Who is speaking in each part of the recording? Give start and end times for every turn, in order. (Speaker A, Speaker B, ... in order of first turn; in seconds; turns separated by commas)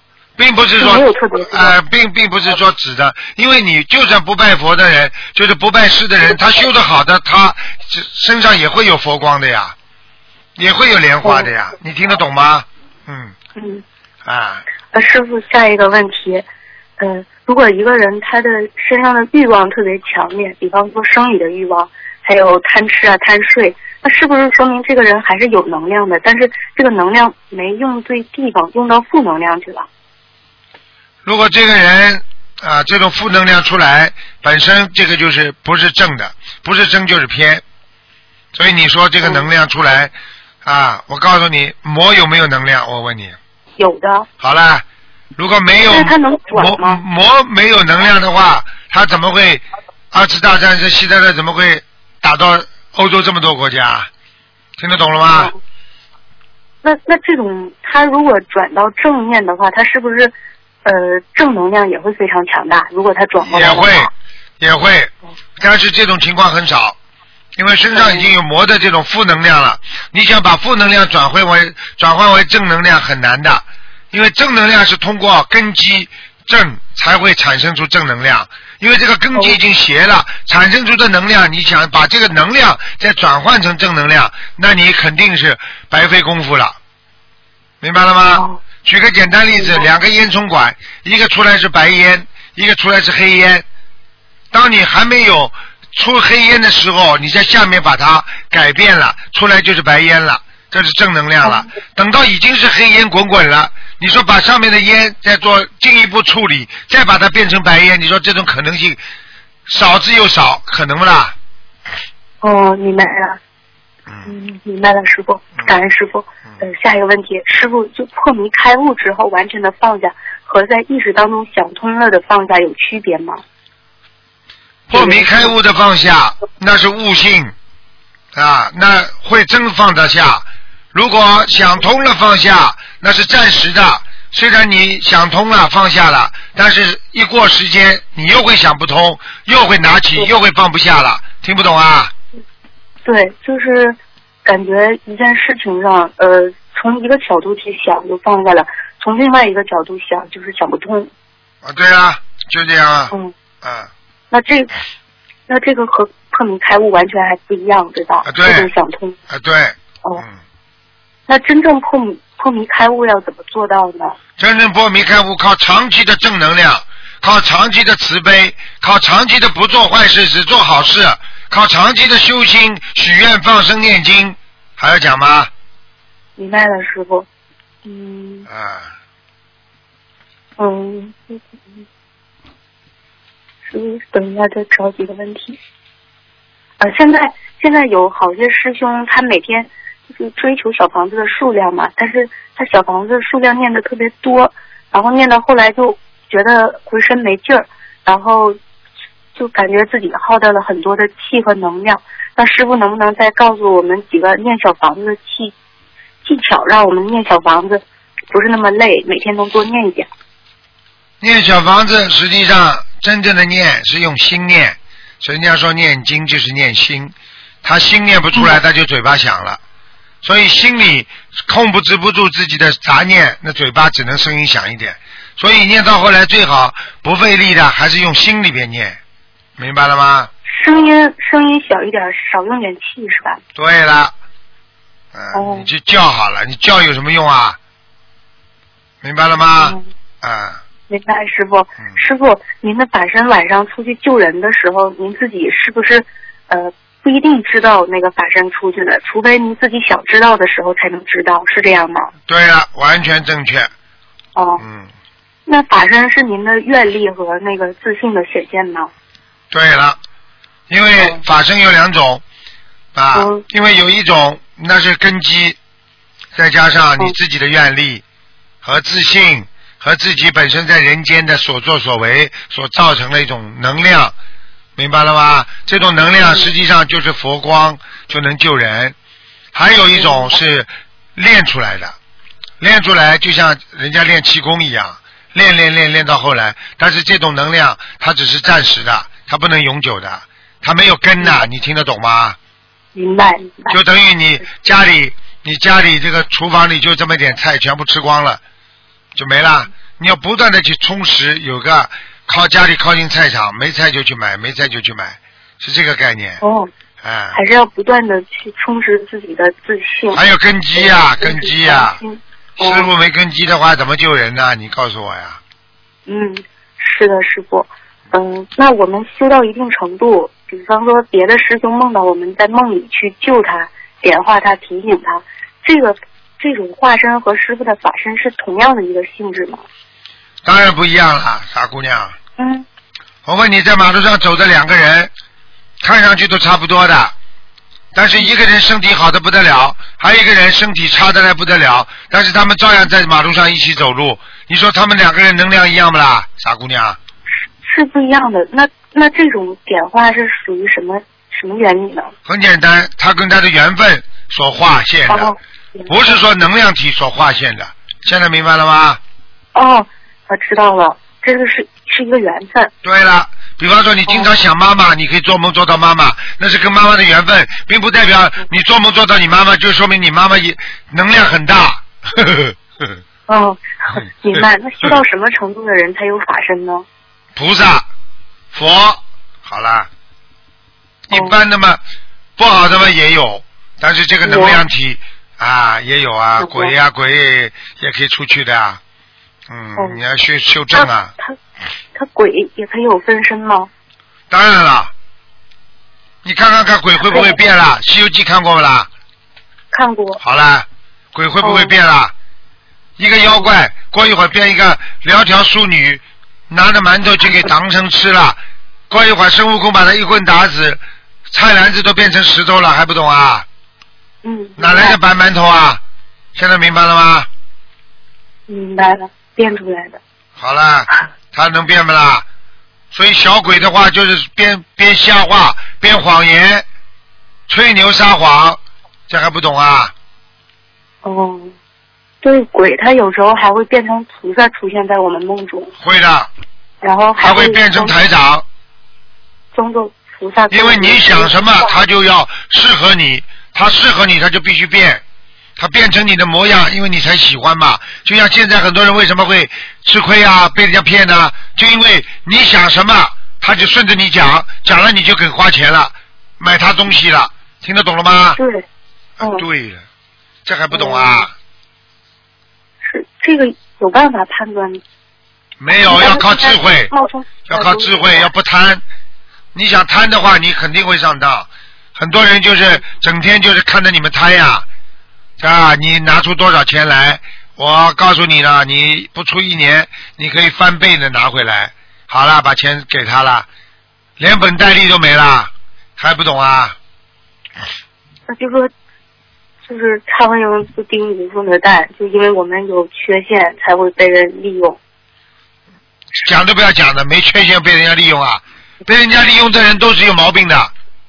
Speaker A: 0.4-9.8, Speaker B: 0.8-1.8, Speaker A: 10.6-13.3, Speaker B: 11.2-11.5, Speaker B: 13.6-13.8, Speaker A: 14.2-14.6, Speaker B: 14.9-16.5, Speaker B: 17.0-29.9, Speaker A: 31.2-37.6, Speaker A: 38.5-43.4, Speaker B: 43.8-44.3, Speaker A: 44.4-44.8, Speaker A: 45.4-54.1, Speaker B: 45.9-47.0, Speaker A: 54.8-55.5, Speaker B: 56.8-60.3, Speaker B: 60.9-64.1, Speaker A: 63.4-67.0, Speaker A: 67.6-86.8, Speaker B: 67.9-68.3, Speaker A: 87.8-93.7, Speaker A: 94.5-109.0, Speaker A: 109.7-111.3, Speaker B: 112.4-113.4, Speaker B: 114.2-123.4, Speaker A: 124.9-127.5, Speaker B: 124.9-125.5, Speaker A: 128.3-142.1, Speaker B: 143.1-151.1, Speaker A: 151.6-153.9, Speaker B: 154.3-154.7, Speaker B: 155.5-159.2, Speaker A: 158.2-158.7, Speaker A: 159.3-160.4, Speaker B: 161.3-164.2, Speaker A: 164.4-175.5, Speaker B: 176.4-177.3, Speaker B: 177.8-178.5, Speaker A: 178.5-178.9, Speaker B: 180.6-181.8, Speaker B: 183.7-185.6, Speaker B: 186.8-198.6, Speaker B: 199.3-205.5, Speaker B: 206.2-210.1, Speaker A: 211.2-219.6, Speaker A: 220.2-229.0, Speaker A: 229.6-230.3, Speaker B: 230.5-233.4, Speaker A: 233.6-234.1, Speaker A: 235.1-237.6, Speaker B: 235.3-235.7, Speaker A: 239.0-240.6, Speaker B: 239.6-239.9, Speaker B: 240.9-252.1, Speaker A: 252.3-253.7, Speaker B: 254.4-254.6, Speaker A: 254.6-254.9, Speaker B: 255.5-258.9, Speaker A: 259.5-260.0, Speaker A: 260.7-262.2, Speaker A: 262.9-265.6, Speaker B: 263.1-263.4, Speaker A: 266.3-268.0, Speaker A: 268.6-274.1, Speaker A: 274.8-278.9, Speaker A: 279.5-282.0, Speaker B: 280.0-280.3, Speaker A: 282.6-292.4, Speaker B: 292.9-293.8, Speaker A: 293.7-298.4, Speaker A: 299.1-306.4, Speaker B: 306.4-306.7, Speaker A: 307.0-307.4, Speaker B: 307.3-310.2, Speaker A: 310.1-312.0, Speaker B: 310.8-312.9, Speaker A: 312.6-315.4, Speaker B: 316.1-329.6, Speaker A: 330.4-332.2, Speaker B: 332.4-332.6, Speaker A: 333.2-335.1, Speaker A: 335.8-337.1, Speaker A: 337.9-347.0, Speaker B: 347.6-352.1, Speaker A: 352.3-355.3, Speaker B: 355.1-355.9, Speaker A: 355.9-359.0, Speaker B: 359.6-362.7, Speaker A: 362.8-373.0, Speaker B: 373.3-376.9, Speaker A: 374.0-375.0, Speaker A: 377.4-377.9, Speaker A: 378.5-379.9, Speaker A: 381.1-381.8, Speaker B: 381.1-381.4, Speaker A: 382.4-388.8, Speaker B: 384.2-384.6, Speaker B: 386.4-386.7, Speaker A: 389.5-391.1, Speaker B: 390.8-391.4, Speaker B: 391.9-393.7, Speaker A: 394.3-394.9, Speaker A: 396.2-398.9, Speaker B: 399.7-400.2, Speaker A: 400.2-402.1, Speaker B: 401.4-401.7, Speaker A: 403.0-413.5, Speaker B: 414.2-415.0, Speaker A: 414.6-415.8, Speaker A: 416.4-417.3, Speaker B: 418.5-420.0, Speaker A: 420.4-422.3, Speaker A: 422.9-426.6, Speaker A: 427.5-429.9, Speaker B: 431.0-431.6, Speaker B: 432.2-435.7, Speaker A: 435.8-436.3, Speaker B: 436.8-438.0, Speaker A: 437.2-438.5, Speaker B: 439.5-441.7, Speaker A: 440.5-445.0, Speaker A: 445.6-458.4, Speaker B: 458.4-458.6, Speaker A: 459.2-459.9, Speaker A: 460.4-461.3, Speaker B: 460.7-461.3, Speaker B: 462.8-464.8, Speaker A: 465.6-466.9, Speaker B: 465.9-468.3, Speaker A: 467.5-468.8, Speaker A: 469.5-474.7, Speaker A: 475.4-483.5, Speaker A: 484.2-486.8, Speaker B: 488.3-488.7, Speaker B: 489.7-494.8, Speaker A: 496.2-500.7